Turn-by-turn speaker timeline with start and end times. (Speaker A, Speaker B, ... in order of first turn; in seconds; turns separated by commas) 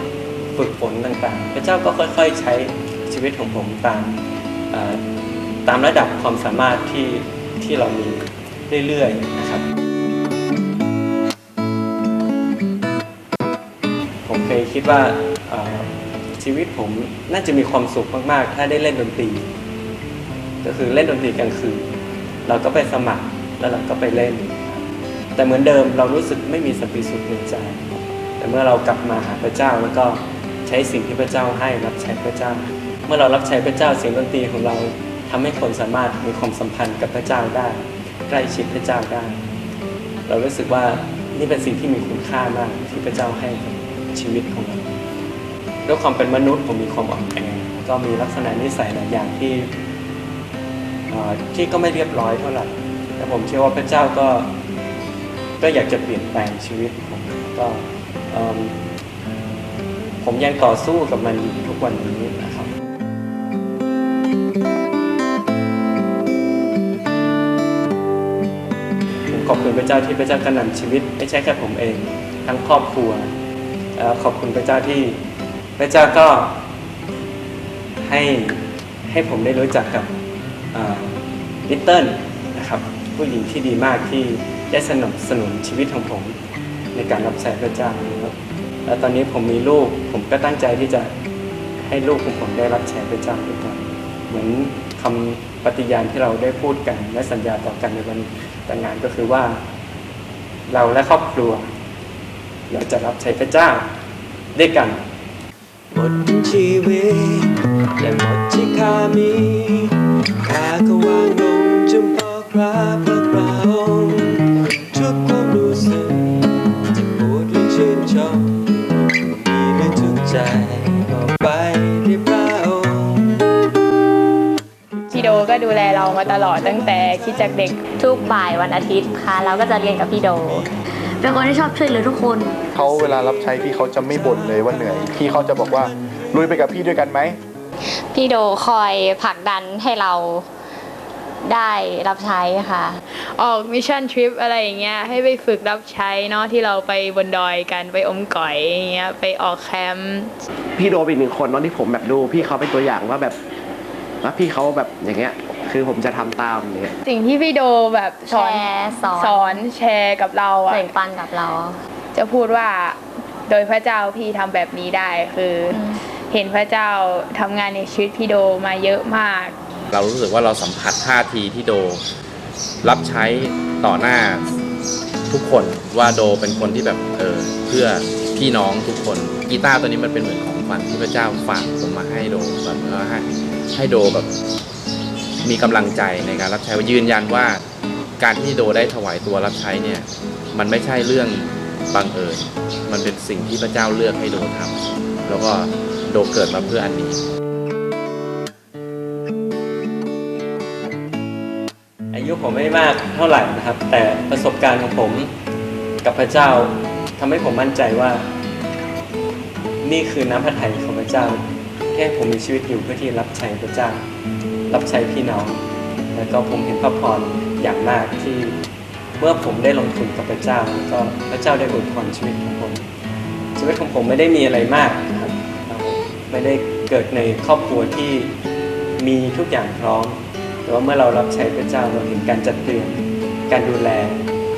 Speaker A: 0.5-4.2, Speaker A: 4.7-5.0, Speaker A: 5.7-9.6, Speaker A: 14.2-19.4, Speaker A: 20.6-21.8, Speaker A: 22.4-27.8, Speaker A: 28.4-39.4, Speaker A: 40.3-44.9, Speaker A: 45.9-49.7, Speaker A: 51.1-54.5, Speaker A: 55.6-58.8, Speaker A: 60.2-62.7, Speaker A: 69.3-73.3, Speaker A: 74.0-75.2, Speaker A: 75.8-76.6, Speaker A: 78.0-80.1, Speaker A: 80.7-86.3, Speaker A: 86.9-88.3, Speaker A: 88.8-91.1, Speaker A: 91.8-99.6, Speaker A: 100.7-101.7, Speaker A: 102.7-103.9, Speaker A: 104.5-105.0, Speaker B: 105.9-123.5, Speaker B: 125.1-125.4, Speaker C: 125.1-127.8, Speaker B: 126.6-127.0, Speaker D: 127.9-132.6, Speaker E: 132.7-137.4, Speaker D: 137.8-140.5, Speaker D: 141.4-143.0, Speaker C: 143.1-150.3, Speaker F: 150.8-153.3, Speaker F: 154.2-156.9, Speaker C: 157.0-160.9, Speaker D: 158.2-159.7, Speaker D: 160.7-161.8, Speaker C: 162.2-169.5, Speaker D: 165.7-166.0, Speaker G: 169.9-172.0, Speaker G: 172.8-174.5, Speaker G: 175.3-184.3, Speaker G: 185.4-187.6, Speaker G: 188.2-194.7, Speaker G: 195.3-197.2, Speaker A: 202.1-205.3, Speaker A: 206.0-208.3, Speaker A: 209.8-211.4, Speaker A: 211.9-214.0, Speaker A: 214.7-215.6, Speaker A: 216.1-218.6, Speaker A: 219.2-222.8, Speaker A: 223.6-228.3, Speaker A: 229.0-234.2